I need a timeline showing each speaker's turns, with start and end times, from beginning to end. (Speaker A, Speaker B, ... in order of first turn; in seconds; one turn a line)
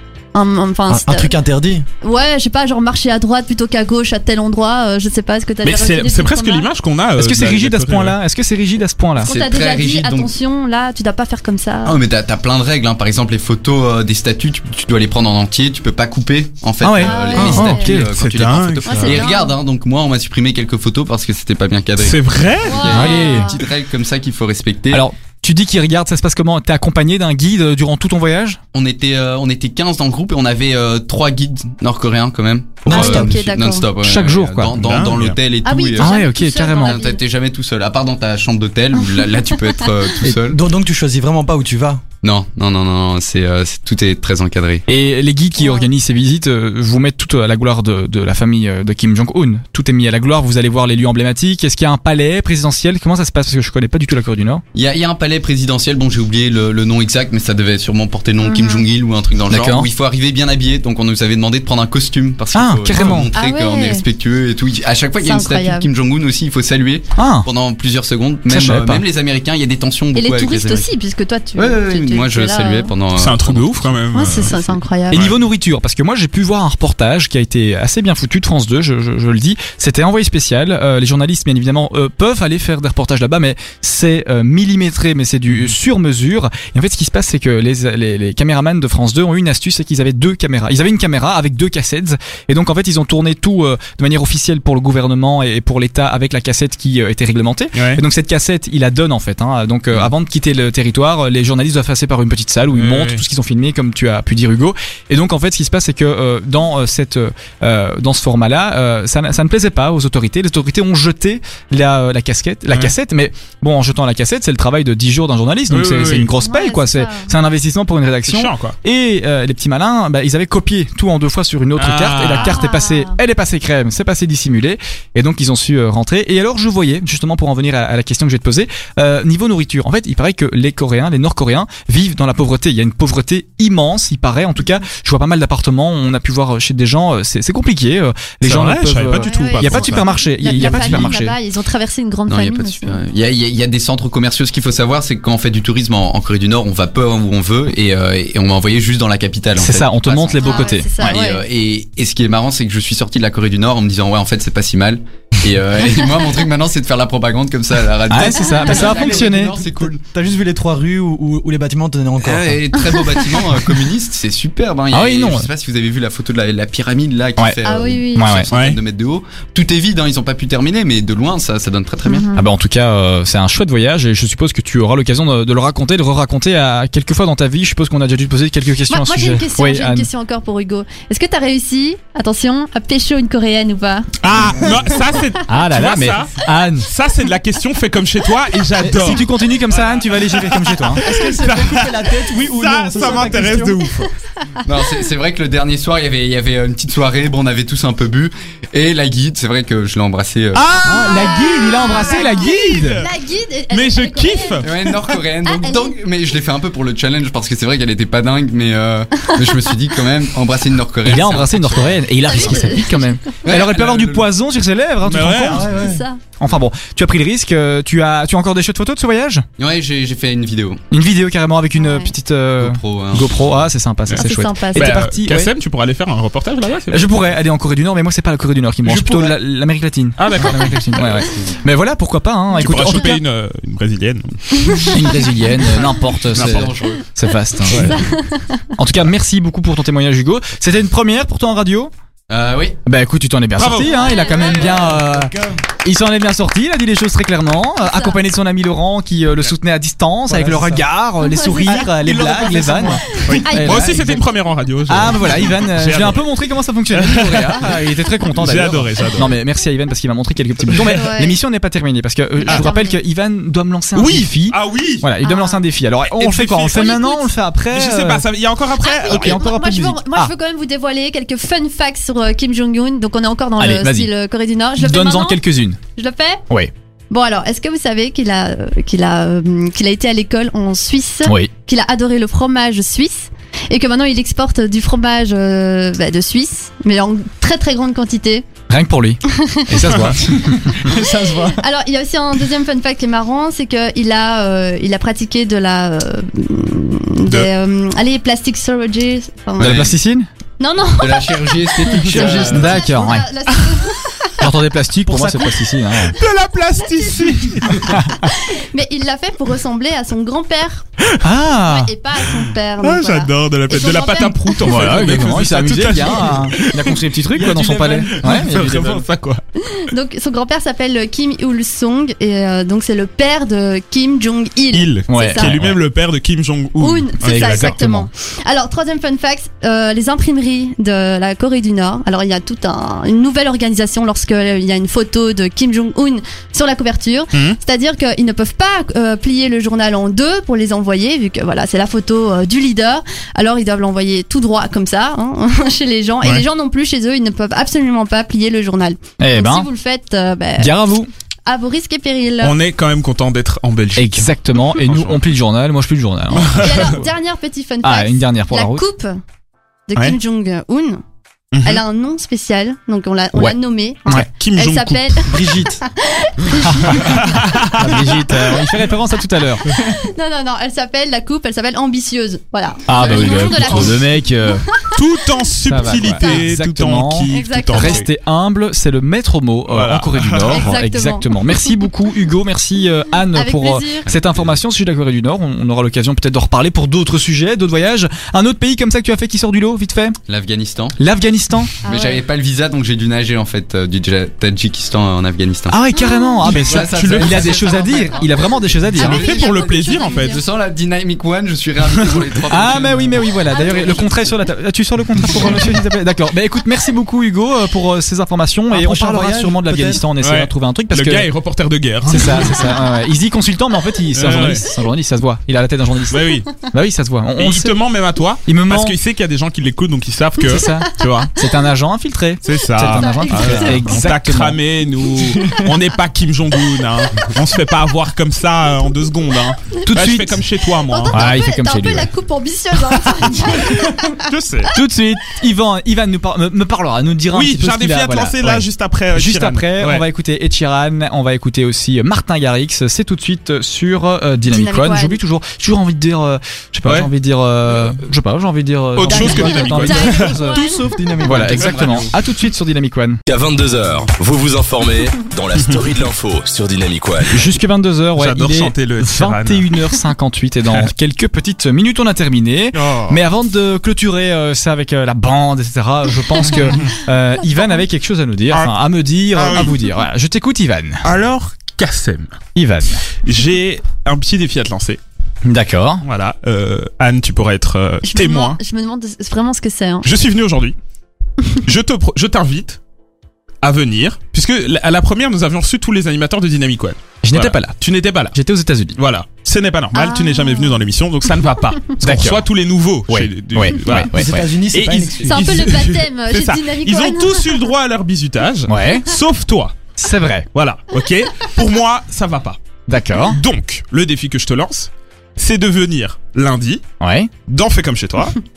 Speaker A: 0.3-1.3
Speaker B: 0.9-1.9
Speaker A: 2.0-6.7
Speaker C: 5.6-8.2
Speaker D: 7.2-9.3
Speaker A: 9.2-12.0
Speaker E: 9.3-10.3
Speaker E: 11.8-25.1
Speaker D: 16.8-18.1
Speaker A: 17.0-17.9
Speaker C: 17.5-19.3
Speaker A: 18.9-19.6
Speaker C: 22.0-23.1
Speaker A: 22.7-23.6
Speaker D: 22.9-23.5
Speaker D: 24.9-28.6
Speaker E: 28.7-40.6
Speaker B: 32.9-33.4
Speaker A: 32.9-33.9
Speaker D: 34.0-34.8
Speaker C: 34.8-35.4
Speaker A: 35.6-37.2
Speaker D: 36.0-37.0
Speaker A: 39.2-39.9
Speaker B: 40.2-42.0
Speaker E: 42.2-44.9
Speaker D: 44.9-54.6
Speaker A: 45.6-45.9
Speaker E: 54.7-70.9
Speaker A: 58.4-58.9
Speaker D: 59.5-59.9
Speaker D: 62.5-63.3
Speaker C: 63.0-63.2
Speaker A: 63.4-64.0
Speaker A: 65.2-65.9
Speaker D: 67.2-67.5
Speaker D: 68.5-69.0
Speaker A: 70.2-72.9
Speaker E: 71.6-74.6
Speaker C: 73.1-75.4
Speaker A: 74.1-75.2
Speaker D: 75.1-141.4
Speaker C: 97.8-98.0
Speaker C: 102.7-103.2
Speaker C: 115.7-116.3
Speaker A: 116.4-117.3
Speaker C: 118.3-118.8
Speaker C: 121.8-122.6
Speaker A: 122.3-123.2
Speaker C: 138.4-141.2
Speaker A: 139.1-143.0
Speaker E: 142.3-160.0
Speaker D: 149.6-151.2
Speaker A: 150.4-151.4
Speaker D: 158.1-159.5
Speaker A: 158.3-158.8
Speaker B: 158.6-162.7
Speaker E: 162.2-172.3
Speaker D: 164.9-165.5
Speaker A: 167.7-168.4
Speaker D: 168.2-168.5
Speaker C: 168.5-168.8
Speaker A: 172.1-172.4
Speaker D: 172.3-180.1
Speaker A: 178.9-184.1
Speaker C: 184.2-194.1
Speaker D: 185.5-186.9
Speaker D: 188.8-191.1
Speaker B: 191.0-194.0
Speaker E: 194.7-200.7
Speaker C: 200.5-203.1
Speaker D: 200.8-203.1
Speaker A: 200.9-204.9
Speaker C: 203.7-204.7
Speaker E: 204.6-212.6
Speaker A: 205.4-206.0
Speaker D: 211.1-215.7
Speaker A: 212.2-213.4
Speaker E: 213.4-214.3
Speaker C: 215.1-215.7
Speaker B: 215.4-216.0
Speaker A: 215.8-216.2
Speaker D: 216.4-219.5
Speaker E: 219.6-220.8
Speaker D: 220.9-225.5
Speaker A: 221.8-222.1
Speaker E: 222.6-223.5
Speaker C: 224.1-227.1
Speaker A: 224.2-225.0
Speaker D: 226.9-233.2
Speaker B: 228.9-229.3
Speaker C: 228.9-229.2
Speaker C: 230.2-231.3
Speaker C: 232.6-235.2
Speaker A: 234.6-235.0
Speaker D: 234.9-238.0
Speaker C: 236.3-236.8
Speaker E: 236.4-237.0
Speaker C: 237.7-238.0
Speaker A: 237.7-238.7
Speaker D: 238.8-241.9
Speaker E: 242.3-242.8
Speaker D: 242.9-245.3
Speaker C: 243.6-244.9
Speaker A: 243.8-244.9
Speaker B: 244.3-245.6
Speaker D: 245.8-254.3
Speaker A: 247.8-248.2
Speaker B: 250.3-250.8
Speaker A: 251.2-251.8
Speaker C: 251.8-256.2
Speaker B: 252.1-252.4
Speaker A: 253.2-254.0
Speaker D: 254.9-268.3
Speaker C: 256.9-259.4
Speaker C: 260.6-261.1
Speaker A: 260.9-261.4
Speaker A: 262.4-263.0
Speaker C: 263.9-265.1
Speaker A: 265.2-265.6
Speaker C: 266.1-267.2
Speaker A: 266.8-267.1
Speaker C: 267.7-269.4
Speaker A: 268.8-275.4
Speaker D: 269.1-270.3
Speaker D: 273.6-274.1
Speaker D: 274.8-275.8
Speaker A: 276.0-276.4
Speaker A: 277.1-288.4
Speaker D: 281.2-281.5
Speaker D: 288.7-290.8
Speaker A: 289.2-289.7
Speaker C: 289.8-290.5
Speaker B: 290.6-291.6
Speaker A: 290.9-299.8
Speaker D: 299.6-300.3
Speaker E: 299.6-299.9
Speaker A: 300.6-304.3
Speaker E: 301.0-303.0
Speaker D: 302.1-303.3
Speaker C: 303.5-303.8
Speaker D: 304.4-306.2
Speaker B: 305.1-305.4
Speaker C: 306.1-308.0
Speaker A: 306.8-310.9
Speaker D: 307.8-308.2
Speaker D: 311.2-311.9
Speaker A: 311.6-315.0
Speaker C: 312.8-319.4
Speaker D: 314.6-319.1
Speaker B: 317.5-318.1
Speaker A: 319.6-325.5
Speaker C: 324.7-327.8
Speaker D: 325.1-325.8
Speaker A: 326.8-350.7
Speaker D: 327.2-328.1
Speaker D: 349.2-349.7
Speaker D: 350.6-351.1
Speaker A: 351.5-352.6
Speaker C: 352.4-355.2
Speaker D: 354.0-357.1
Speaker C: 356.3-357.0
Speaker A: 356.5-359.2
Speaker D: 357.8-358.9
Speaker A: 359.9-361.0
Speaker C: 361.5-361.8
Speaker A: 361.6-367.4
Speaker C: 364.1-365.2
Speaker B: 365.3-365.8
Speaker D: 366.8-367.1
Speaker C: 367.1-368.1
Speaker D: 367.6-369.7
Speaker A: 369.7-374.1
Speaker D: 372.9-374.7
Speaker C: 373.0-374.0
Speaker A: 374.7-375.0
Speaker C: 374.9-378.1
Speaker D: 375.6-390.2
Speaker A: 375.8-376.5
Speaker A: 377.3-378.1
Speaker C: 379.7-380.7
Speaker A: 380.5-381.9
Speaker A: 383.3-384.1
Speaker E: 384.1-384.5
Speaker E: 390.3-391.0
Speaker D: 391.0-391.7
Speaker A: 391.8-392.2
Speaker E: 391.8-395.9
Speaker D: 395.7-399.3
Speaker A: 396.0-396.5
Speaker C: 396.4-397.9
Speaker E: 396.5-404.2
Speaker A: 398.9-400.4
Speaker C: 399.0-400.4
Speaker D: 402.4-411.3
Speaker A: 403.5-404.2
Speaker B: 408.7-410.1
Speaker C: 410.2-412.8
Speaker D: 412.1-417.8
Speaker C: 414.1-414.7
Speaker C: 416.1-416.6
Speaker C: 417.4-421.3
Speaker D: 418.4-419.0
Speaker D: 420.5-424.6
Speaker C: 422.4-431.3
Speaker A: 422.8-424.0
Speaker D: 429.8-430.4
Speaker A: 430.8-434.2
Speaker D: 431.1-432.1
Speaker C: 433.4-434.8
Speaker D: 434.7-450.6
Speaker C: 437.3-440.1
Speaker A: 444.5-445.2
Speaker C: 448.9-450.3
Speaker A: 449.1-451.0
Speaker B: 450.5-452.0
Speaker D: 451.2-453.2
Speaker E: 451.6-452.1
Speaker F: 453.3-457.5
Speaker D: 457.3-471.1
Speaker C: 458.2-459.7
Speaker C: 462.7-463.2
Speaker C: 469.3-469.8
Speaker C: 471.0-472.4
Speaker D: 472.6-473.1
Speaker C: 473.2-475.0
Speaker D: 475.4-476.0
Speaker C: 476.0-478.6
Speaker A: 478.0-480.1
Speaker C: 480.1-480.8
Speaker C: 481.6-482.8
Speaker C: 483.6-488.4
Speaker D: 487.2-489.0
Speaker C: 489.0-499.8
Speaker A: 489.9-490.8
Speaker D: 492.0-492.5
Speaker D: 493.1-494.4
Speaker B: 494.1-495.7
Speaker A: 495.2-497.7
Speaker D: 498.7-499.1
Speaker D: 500.0-500.5
Speaker C: 500.5-502.6
Speaker D: 502.9-503.4
Speaker C: 503.2-506.8
Speaker D: 507.0-507.3
Speaker C: 507.4-508.4